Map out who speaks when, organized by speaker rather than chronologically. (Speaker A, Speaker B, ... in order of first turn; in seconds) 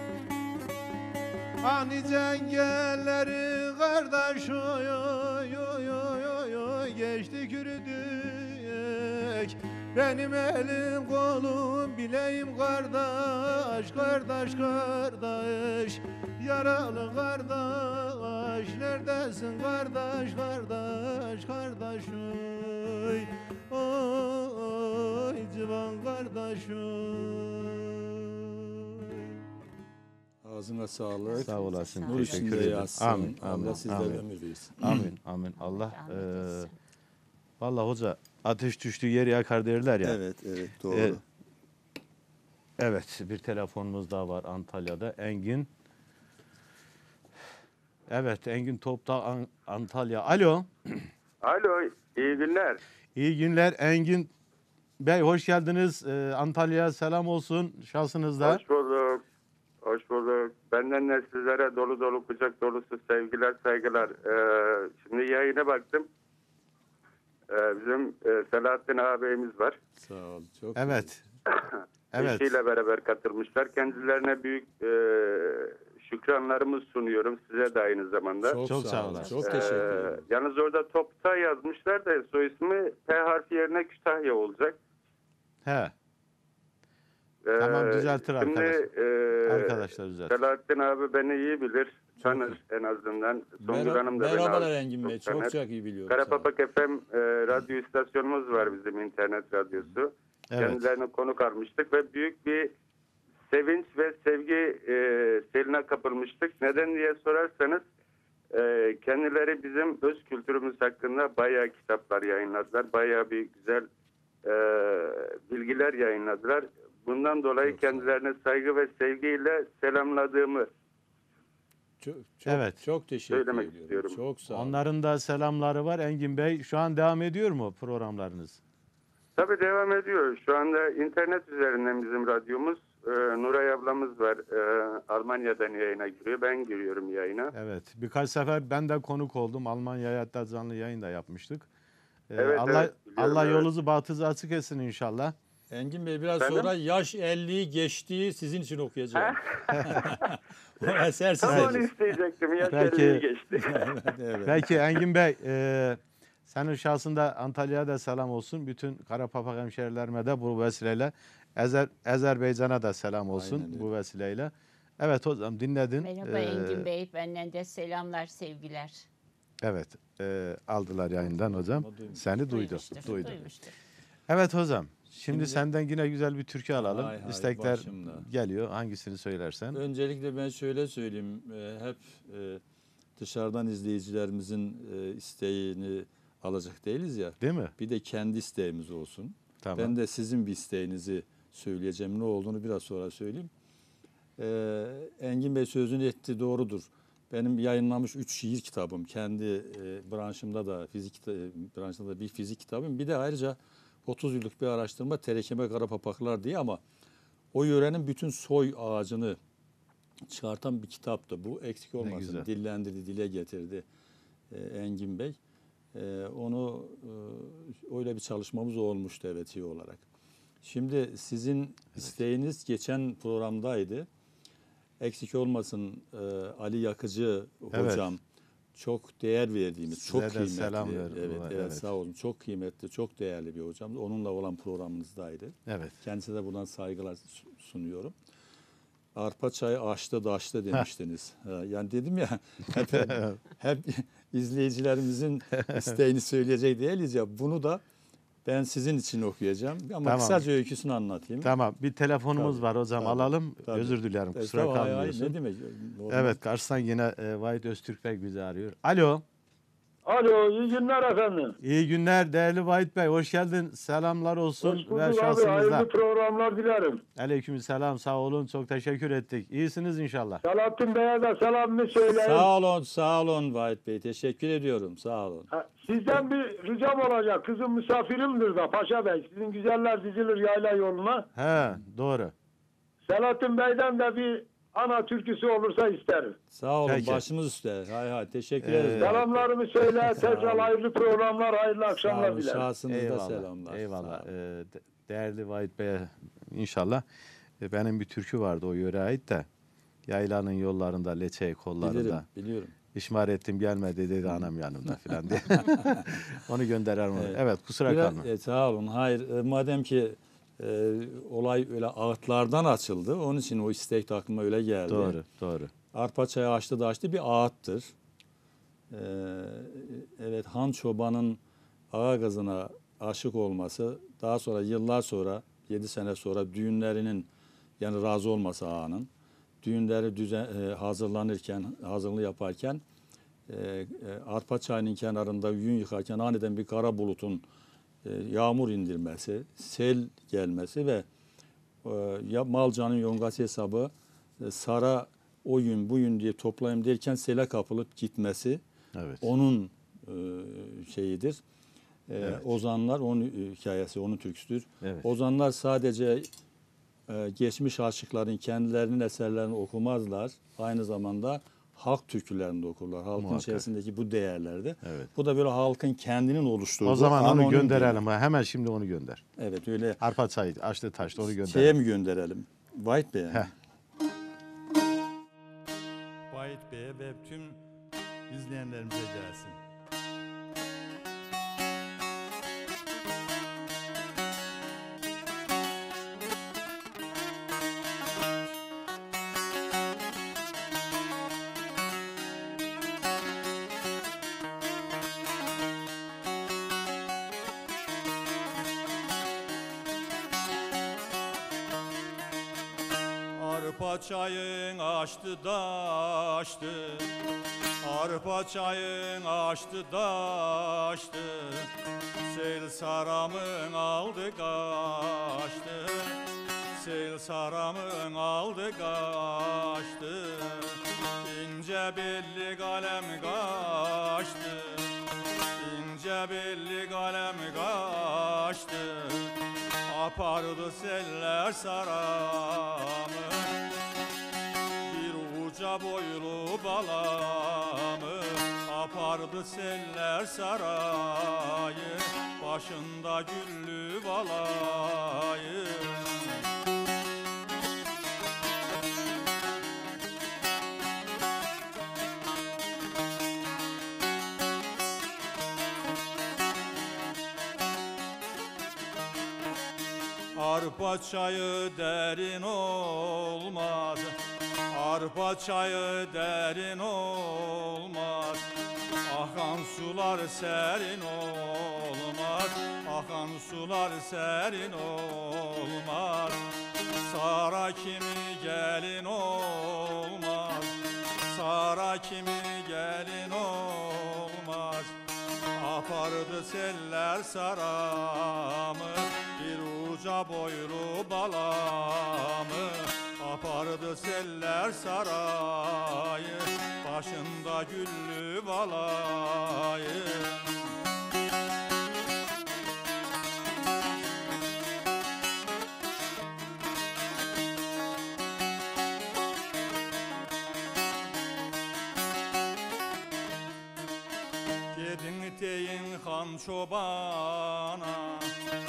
Speaker A: 1.6-29.3
Speaker B: 30.4-35.1, 40.0-41.2, 70.0-71.1, 78.4-80.2, 92.2-92.6, 93.6-96.5, 117.6-118.1, 122.0-124.8, 145.7-151.9, 153.6-154.6, 163.3-163.9, 171.2-172.2, 175.3-175.6, 176.8-178.2, 179.7-182.6, 183.2-193.5, 194.4-206.8, 207.5-209.4, 210.3-213.8, 214.5-215.4, 215.9-220.0, 220.6-224.1, 225.0-228.2, 228.8-238.1, 239.2-247.8, 248.4-251.5, 252.4-256.4, 272.1-275.5, 286.5-289.4, 290.2-290.7, 292.0-294.3, 301.8-302.7, 305.9-306.2, 307.2-315.2, 315.9-317.9, 318.9-321.4, 321.9-327.3, 327.8-329.1, 329.6-332.8, 333.5-337.4, 338.0-341.1, 341.8-348.6, 349.2-351.4, 352.1-356.3, 357.1-368.0, 369.4-370.0, 371.3-373.5, 378.3-379.4
Speaker C: 31.3-34.2, 35.5-36.8, 79.2-79.9, 166.0-169.1, 172.3-173.8
Speaker D: 31.4-34.2, 34.8-36.7, 37.6-40.2, 40.9-41.2, 42.8-45.7, 48.1-51.1, 53.1-54.3, 55.0-58.6, 70.8-71.2, 72.1-72.6, 78.7-79.5, 85.7-85.9, 87.6-88.8, 89.5-90.4, 100.5-100.9, 122.5-122.8, 124.5-128.6, 137.5-141.7, 142.3-145.3, 149.7-150.0, 151.4-151.8, 152.7-153.2, 154.4-166.9, 169.6-173.4, 174.3-179.8, 187.4-187.8, 189.6-189.9, 212.0-212.5, 227.7-228.1, 229.9-231.9, 235.7-236.0, 242.8-243.4, 245.5-246.0, 250.0-250.5, 251.4-255.4, 256.1-259.2, 261.6-265.9, 267.2-270.4, 281.4-282.3, 286.9-287.2, 288.6-289.2, 290.1-290.5, 292.9-297.0, 297.6-299.5, 300.1-302.2, 302.9-308.3, 314.9-315.7, 348.9-349.2, 363.2-363.7, 364.8-365.1, 366.8-369.2, 370.0-371.8
Speaker E: 51.4-52.8, 58.4-59.2, 59.8-66.1, 67.5-69.8, 71.5-78.7, 79.3-84.8, 87.5-95.6, 96.1-102.7, 103.5-107.8, 108.5-113.9, 114.5-120.7, 123.3-124.2, 129.4-137.5, 142.4-143.7, 146.4-146.7, 149.2-154.0
Speaker F: 260.1-261.6, 264.6-267.0, 270.4-272.5, 275.5-281.3, 283.1-286.4, 289.0-292.7
Speaker G: 376.3-377.5, 403.4-407.1, 407.8-411.7, 412.3-416.2, 416.8-424.9, 425.6-429.4, 429.9-433.5, 434.9-446.4, 460.4-464.2, 464.7-468.5, 469.1-476.4, 476.9-480.8, 481.3-485.0, 485.6-500.7, 514.7-518.3